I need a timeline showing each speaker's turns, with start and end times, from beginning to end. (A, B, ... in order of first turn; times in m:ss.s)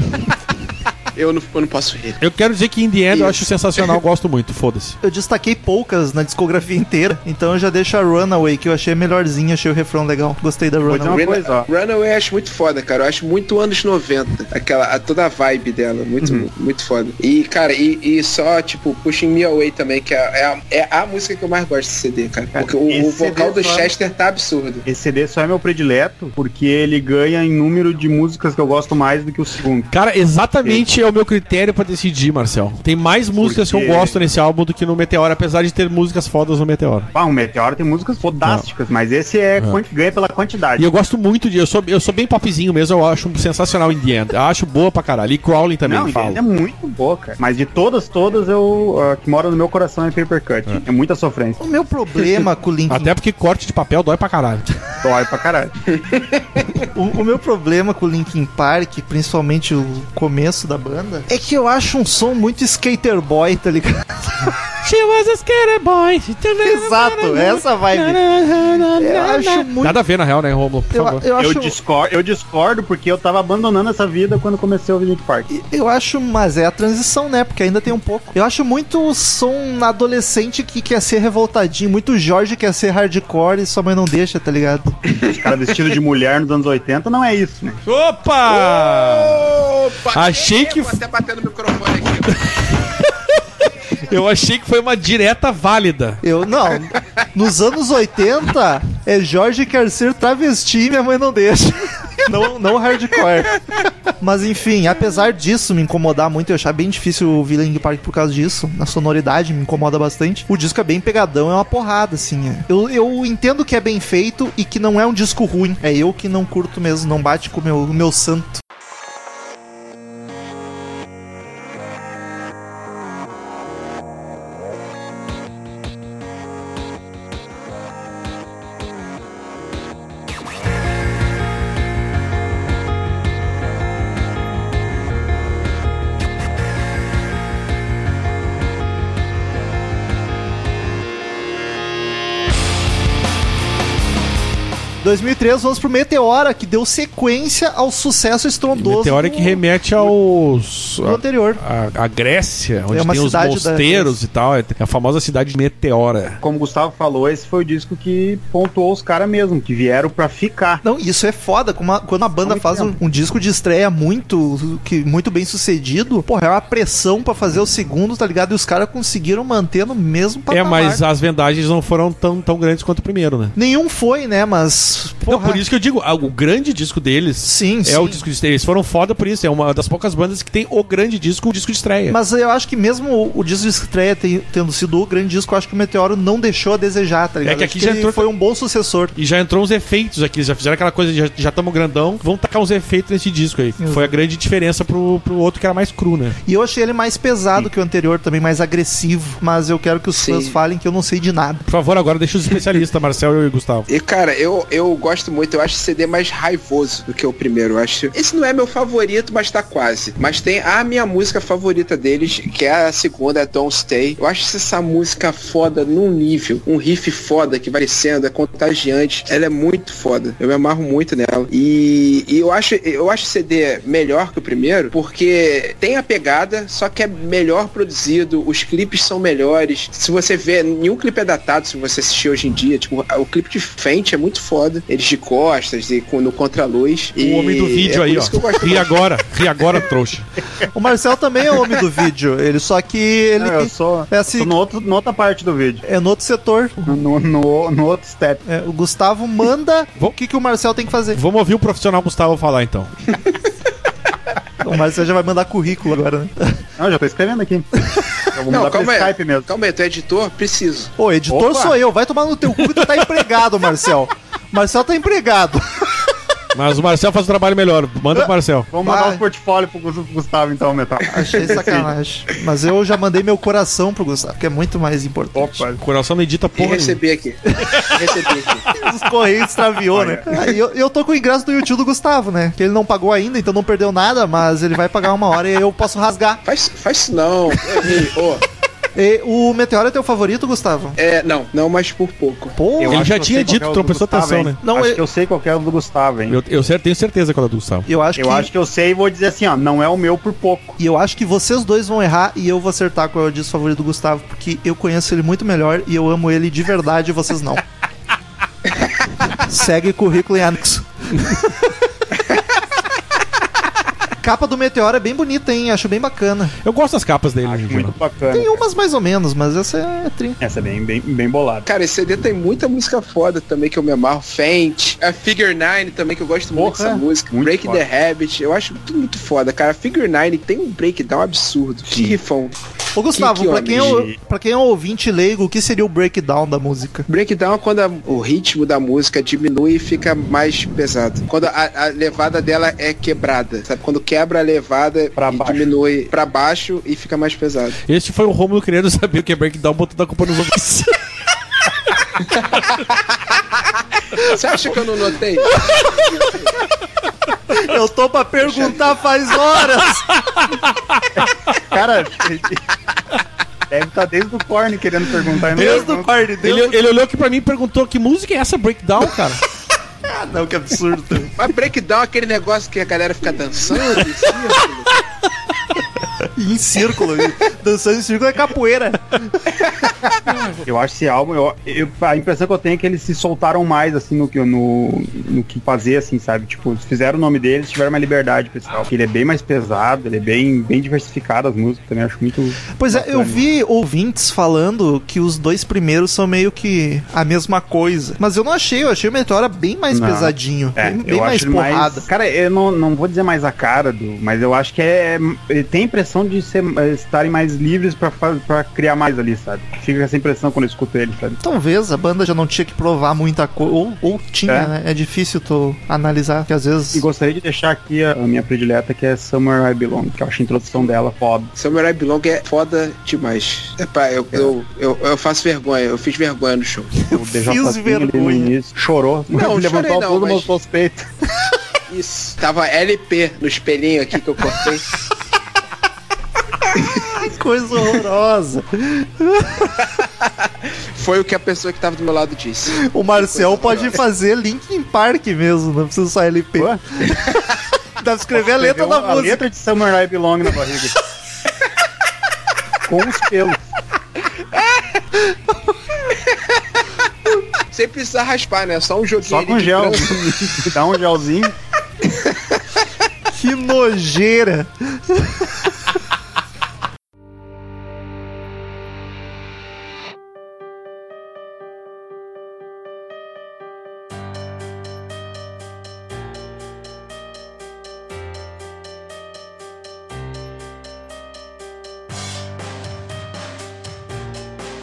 0:01.1-0:02.2 A
0:02.2-0:05.0 B
0:03.1-0:04.0 A
0:05.0-0:11.3 C
0:10.8-0:11.6 D
0:11.1-0:24.8 A
0:16.2-0:16.5 D
0:22.5-0:23.9 D
0:24.8-0:29.9 D
0:29.9-0:37.1 B
0:33.4-0:34.2 D
0:37.1-0:40.9 D
0:40.8-0:46.4 B
0:45.8-0:51.6 D
0:51.6-0:53.1 C
0:52.9-0:54.8 B
0:55.0-0:55.7 D
0:56.9-1:04.6 C
1:04.8-1:11.2 B
1:06.6-1:08.3 C
1:09.0-1:10.0 C
1:10.9-1:11.8 C
1:11.4-1:15.5 D
1:15.5-1:24.9 C
1:25.2-1:27.8 D
1:27.8-1:29.5 B
1:28.5-1:32.4 A
1:30.1-1:31.0 B
1:34.0-1:36.2 B
1:36.2-1:58.6 C
2:25.0-2:29.6 C
2:28.7-2:36.4 B
2:31.0-2:31.6 C
2:32.9-2:34.2 C
2:36.4-2:40.8 D
2:40.8-2:51.0 C
2:42.4-2:42.9 D
2:50.5-2:53.5 B
2:53.6-2:55.6 C
2:55.2-3:02.2 B
2:57.4-2:58.2 C
3:02.1-3:09.1 C
3:07.4-3:08.3 B
3:09.2-3:16.4 B
3:13.8-3:14.1 C
3:16.4-3:21.6 C
3:20.1-3:20.6 A
3:21.7-3:23.9 B
3:23.9-3:58.9 A
3:57.2-4:00.2 B
4:00.7-4:04.5 C
4:03.4-4:05.8 D
4:05.8-4:07.0 C
4:06.8-4:08.4 D
4:08.4-4:11.2 C
4:11.1-4:12.9 B
4:14.6-4:16.6 C
4:16.8-4:17.7 D
4:18.3-4:19.5 D
4:18.5-4:20.9 A
4:21.0-4:25.9 C
4:21.3-4:21.8 D
4:22.6-4:23.0 B
4:26.5-4:28.7 B
4:28.7-4:31.9 D
4:28.8-4:29.2 C
4:31.1-4:35.6 C
4:35.3-4:35.8 D
4:35.8-4:37.0 B
4:36.6-4:38.7 A
4:37.6-4:37.9 B
4:38.7-4:46.4 C
4:39.9-4:40.2 D
4:46.4-4:48.4 A
4:49.0-4:51.0 C
4:51.0-4:52.6 A
4:52.6-4:53.1 C
4:52.8-4:56.4 D
4:52.9-4:54.6 B
4:54.6-4:55.0 C
4:56.3-4:57.9 B
4:57.9-4:58.5 C
4:58.2-5:00.8 D
5:00.8-5:07.6 C
5:09.4-5:11.7 C
5:14.2-5:16.5 C
5:16.6-5:17.9 B
5:17.4-5:18.6 D
5:18.3-5:20.4 C
5:20.4-5:21.6 D
5:21.6-5:32.5 A
5:26.5-5:27.8 D
5:31.9-5:32.2 D
5:32.9-5:37.1 C
5:33.1-5:34.0 A
5:33.7-5:34.1 D
5:37.1-5:47.8 A
5:45.2-5:45.7 D
5:47.9-5:50.9 B
5:52.4-5:52.8 A
5:54.2-5:56.5 A
5:57.5-6:00.1 C
6:00.1-6:01.1 B
6:01.2-6:02.6 D
6:03.7-6:06.1 D
6:05.5-6:06.8 C
6:05.6-6:09.4 B
6:10.0-6:11.3 C
6:11.4-6:15.0 A
6:16.2-6:19.4 C
6:20.6-6:33.4 D
6:32.8-6:42.1 C
6:39.9-6:51.4 D
6:51.4-6:57.0 C
6:56.9-7:01.5 D
7:01.6-7:06.9 A
7:07.1-7:11.0 D
7:07.1-7:08.5 C
7:09.4-7:10.5 A
7:11.9-7:14.9 A
7:17.1-7:19.8 C
7:19.8-7:24.0 A
7:22.8-7:27.1 C
7:28.0-7:29.4 C
7:28.3-7:31.0 D
7:32.8-7:33.6 D
7:35.2-7:35.7 C
7:37.7-7:40.2 A
7:39.2-7:41.5 D
7:42.0-7:42.6 A
7:43.3-7:45.9 C